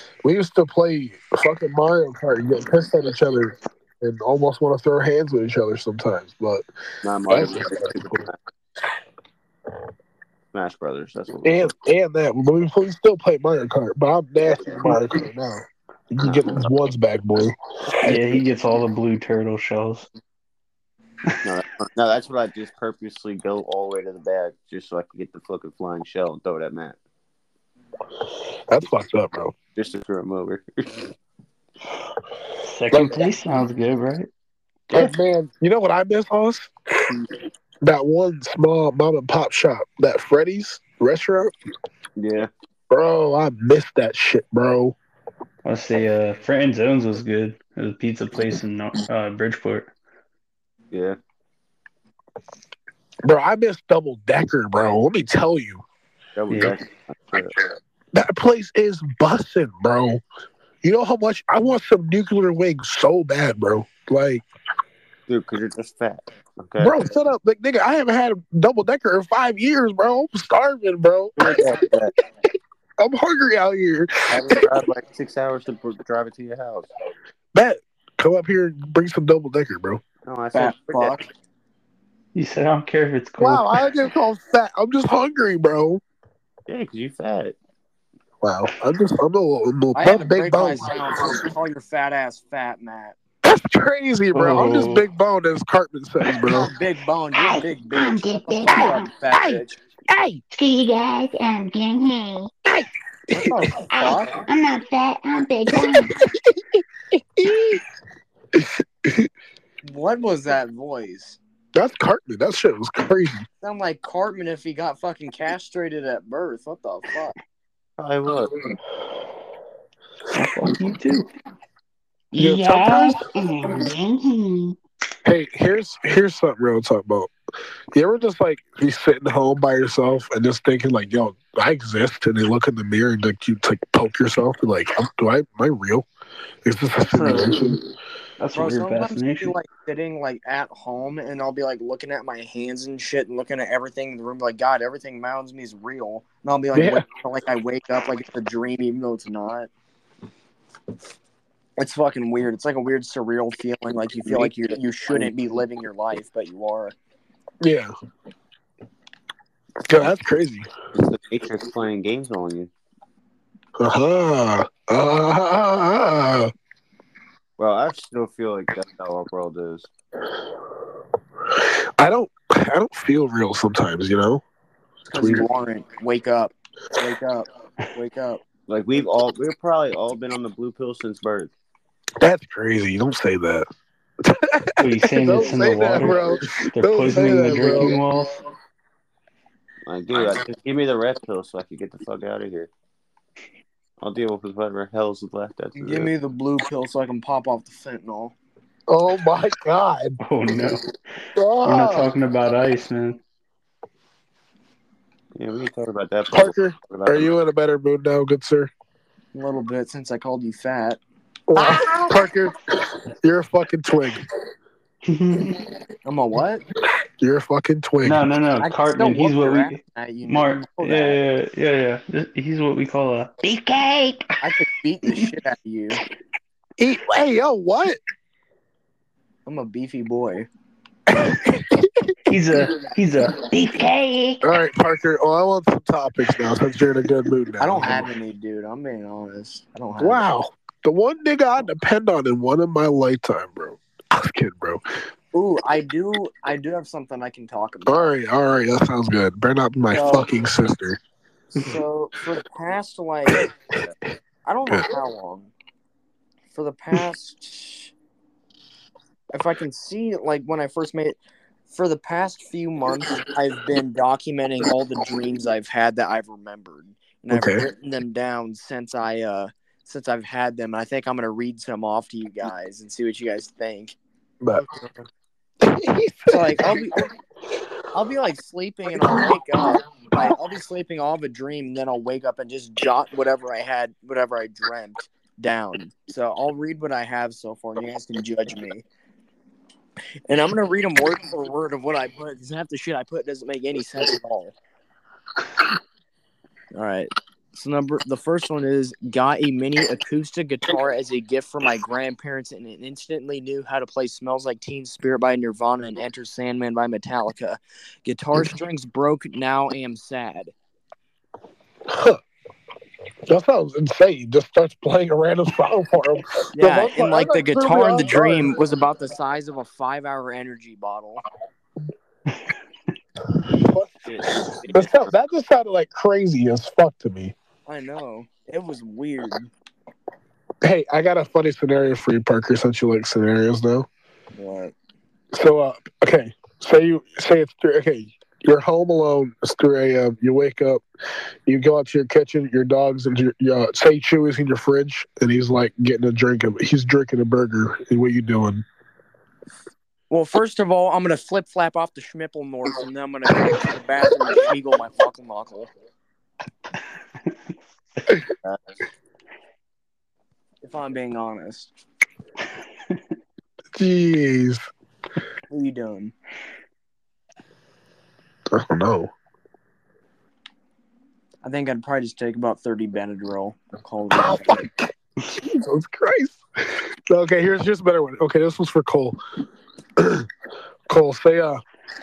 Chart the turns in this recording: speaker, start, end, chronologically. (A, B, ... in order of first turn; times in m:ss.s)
0:00.2-0:06.6 A
0:07.0-0:08.4 B
0:07.3-0:08.2 A
0:10.5-0:11.7 B
0:11.4-0:18.2 A
0:16.2-0:16.7 B
0:18.0-0:20.1 C
0:21.4-0:27.0 B
0:28.7-0:29.5 A
0:29.8-0:31.1 B
0:32.6-0:34.3 C
0:32.9-0:33.3 A
0:34.9-0:36.7 A
0:37.8-0:41.5 A
0:42.2-0:42.5 B
0:42.9-0:45.0 A
0:45.6-0:49.9 C
0:50.9-0:51.2 B
0:53.2-0:55.8 A
0:56.4-0:57.5 B
0:56.5-0:56.8 C
0:58.1-1:00.2 A
1:00.8-1:04.4 A
1:05.3-1:07.0 B
1:06.8-1:11.7 A
1:11.4-1:12.1 B
1:13.0-1:14.6 A
1:14.3-1:16.9 B
1:17.5-1:20.0 A
1:20.2-1:21.2 B
1:20.5-1:21.2 D
1:22.3-1:23.8 C
1:23.4-1:26.0 A
1:26.7-1:27.6 B
1:28.4-1:31.3 A
1:29.9-1:33.2 D
1:33.4-1:36.7 A
1:34.3-1:35.0 C
1:36.5-1:39.8 D
1:37.3-1:39.1 E
1:39.4-1:40.4 A
1:40.5-1:42.5 E
1:42.7-1:43.7 A
1:43.3-1:44.4 D
1:43.9-1:46.2 E
1:45.7-1:47.8 A
1:48.5-1:49.3 A
1:49.8-1:51.4 D
1:51.7-1:53.4 A
1:53.6-1:57.3 D
1:58.0-1:58.6 B
2:00.3-2:01.3 C
2:02.3-2:04.8 E
2:02.3-2:03.3 A
2:05.2-2:07.3 A
2:07.9-2:16.1 A
2:16.6-2:17.8 A
2:17.0-2:17.7 C
2:18.4-2:19.5 C
2:18.5-2:29.7 D
2:26.7-2:27.0 A
2:31.8-2:37.0 D
2:37.6-2:37.9 A
2:39.8-2:40.7 A
2:40.9-2:42.7 B
2:43.8-2:46.5 A
2:47.6-2:49.9 B
2:51.5-2:54.4 A
2:55.1-2:58.4 D
2:55.1-2:55.5 A
2:58.7-3:01.5 B
3:02.2-3:03.7 A
3:04.2-3:08.0 A
3:04.8-3:08.4 C
3:09.8-3:12.7 B
3:14.0-3:16.1 B
3:15.8-3:18.3 D
3:18.9-3:20.2 A
3:20.2-3:20.8 C
3:21.4-3:22.1 A
3:21.6-3:23.2 C
3:25.4-3:27.3 B
3:26.3-3:28.7 A
3:29.3-3:31.0 D
3:31.5-3:34.2 A
3:31.6-3:32.1 E
3:35.0-3:35.6 C
3:36.0-3:36.6 D
3:37.2-3:38.2 A
3:38.0-3:43.4 C
3:38.6-3:41.2 D
3:43.4-3:44.3 E
3:44.4-3:46.0 D
3:46.8-3:48.0 A
3:49.4-3:50.5 D
3:51.1-3:52.1 A
3:52.3-3:53.4 C
3:53.3-3:54.5 E
3:54.4-3:58.1 A
3:57.6-4:00.2 D
4:00.0-4:04.8 A
4:05.3-4:08.0 D
4:07.9-4:11.0 A
4:09.9-4:10.3 D
4:11.5-4:13.5 D
4:14.4-4:15.5 D
4:16.5-4:17.9 D
4:19.3-4:21.2 D
4:21.7-4:34.0 D
4:27.3-4:27.6 A
4:34.6-4:35.1 D
4:35.6-4:36.8 A
4:36.3-4:37.1 D
4:37.9-4:48.8 D
4:39.0-4:39.4 A
4:50.3-4:54.6 D
4:56.7-5:10.5 D
5:11.9-5:12.2 A
5:13.3-5:18.6 A
5:16.6-5:21.2 D
5:23.3-5:27.3 A
5:24.0-5:25.0 B
5:27.6-5:29.5 D
5:30.6-5:33.9 A
5:34.3-5:34.7 D
5:35.3-5:40.8 A
5:41.4-5:48.6 A
5:50.1-5:55.7 D
6:00.6-6:01.7 D
6:03.7-6:04.7 A
6:05.5-6:06.1 D
6:08.5-6:09.1 A
6:11.4-6:14.6 D
6:14.1-6:19.2 A
6:20.0-6:20.3 A
6:20.9-6:21.6 A